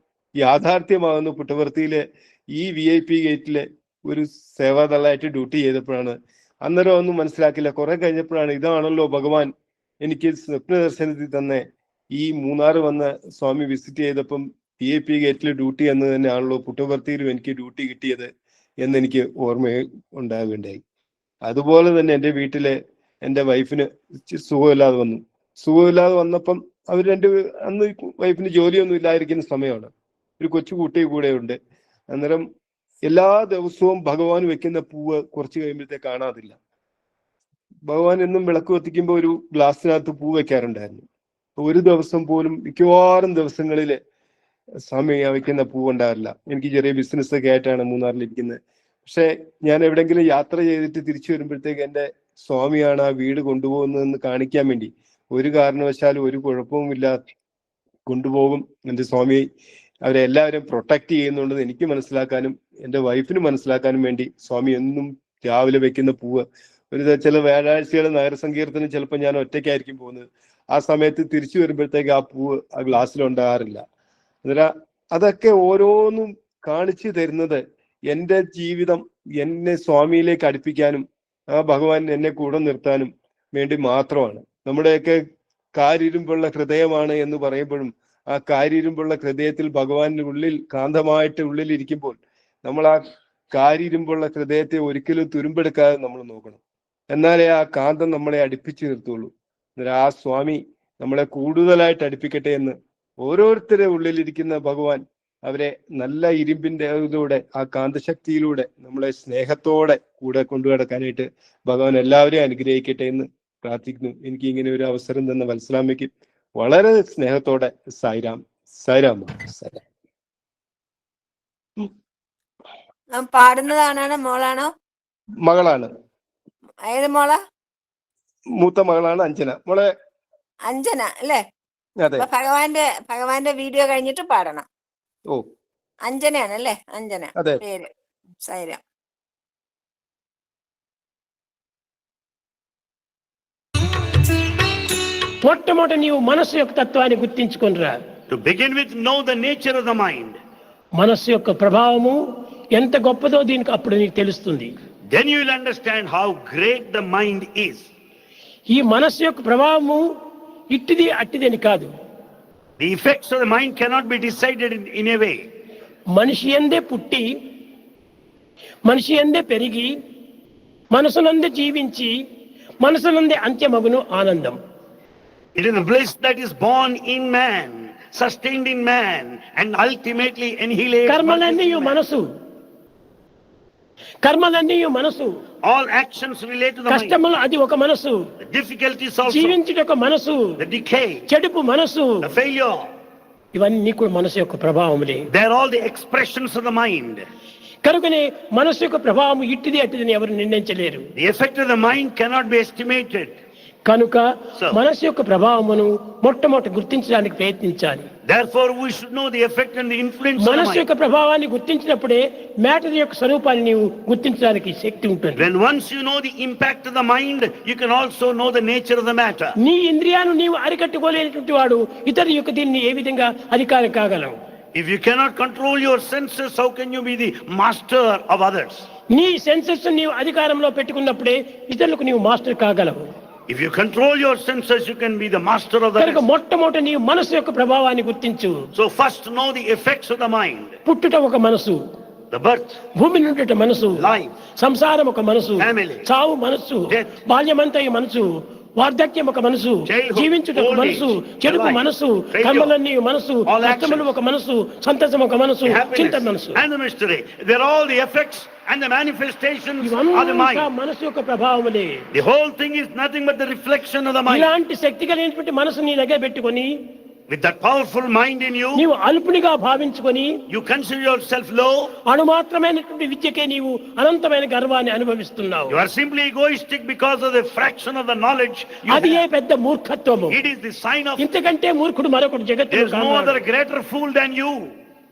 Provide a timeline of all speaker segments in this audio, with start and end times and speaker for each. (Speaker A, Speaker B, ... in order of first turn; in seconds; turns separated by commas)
Speaker A: 0.4-9.5, Speaker A: 10.0-18.3, Speaker A: 18.8-20.8, Speaker A: 21.4-31.6, Speaker A: 32.1-32.5, Speaker A: 33.1-36.6, Speaker A: 37.9-41.1, Speaker A: 41.6-44.0, Speaker A: 44.9-57.2, Speaker A: 58.1-59.5, Speaker A: 60.0-73.8, Speaker A: 74.4-85.2, Speaker A: 85.8-96.6, Speaker A: 97.1-119.8, Speaker B: 123.2-124.7, Speaker A: 125.4-125.9, Speaker B: 126.8-127.4, Speaker A: 128.6-129.9, Speaker B: 130.7-131.4, Speaker A: 132.0-132.2, Speaker B: 132.2-134.7, Speaker B: 136.1-137.9, Speaker A: 137.4-137.6, Speaker B: 138.5-138.8, Speaker C: 145.4-147.9, Speaker D: 148.3-150.4, Speaker C: 151.0-152.2, Speaker C: 152.8-154.7, Speaker D: 155.1-157.9, Speaker C: 158.7-160.0, Speaker C: 160.7-161.9, Speaker D: 162.8-165.4, Speaker C: 166.2-167.6, Speaker C: 168.9-169.9, Speaker C: 170.9-172.1, Speaker C: 172.8-174.6, Speaker D: 175.6-182.0, Speaker C: 181.1-182.2, Speaker C: 184.2-185.3, Speaker D: 185.6-187.2, Speaker C: 186.9-188.3, Speaker D: 188.4-189.6, Speaker C: 189.2-190.6, Speaker D: 190.6-191.2, Speaker C: 191.3-192.3, Speaker D: 192.2-192.9, Speaker C: 193.6-195.3, Speaker D: 195.3-197.2, Speaker C: 197.8-201.1, Speaker D: 201.2-203.4, Speaker C: 203.9-208.1, Speaker D: 208.3-210.8, Speaker C: 210.4-215.5, Speaker D: 215.4-219.5, Speaker C: 219.6-224.4, Speaker D: 224.8-228.9, Speaker C: 229.1-233.1, Speaker D: 233.5-236.2, Speaker C: 236.0-238.5, Speaker D: 238.8-240.8, Speaker C: 240.9-241.8, Speaker D: 242.3-242.8, Speaker C: 242.9-256.6, Speaker D: 243.9-244.4, Speaker D: 245.6-246.1, Speaker D: 246.9-247.2, Speaker D: 249.9-252.8, Speaker D: 253.4-254.1, Speaker D: 255.6-260.7, Speaker C: 259.8-262.1, Speaker D: 262.1-264.5, Speaker C: 264.3-266.7, Speaker D: 267.3-268.9, Speaker C: 268.8-270.4, Speaker D: 270.5-271.9, Speaker C: 272.1-275.8, Speaker D: 275.7-279.2, Speaker C: 278.9-280.4, Speaker D: 280.3-281.3, Speaker C: 281.2-283.4, Speaker D: 282.7-284.7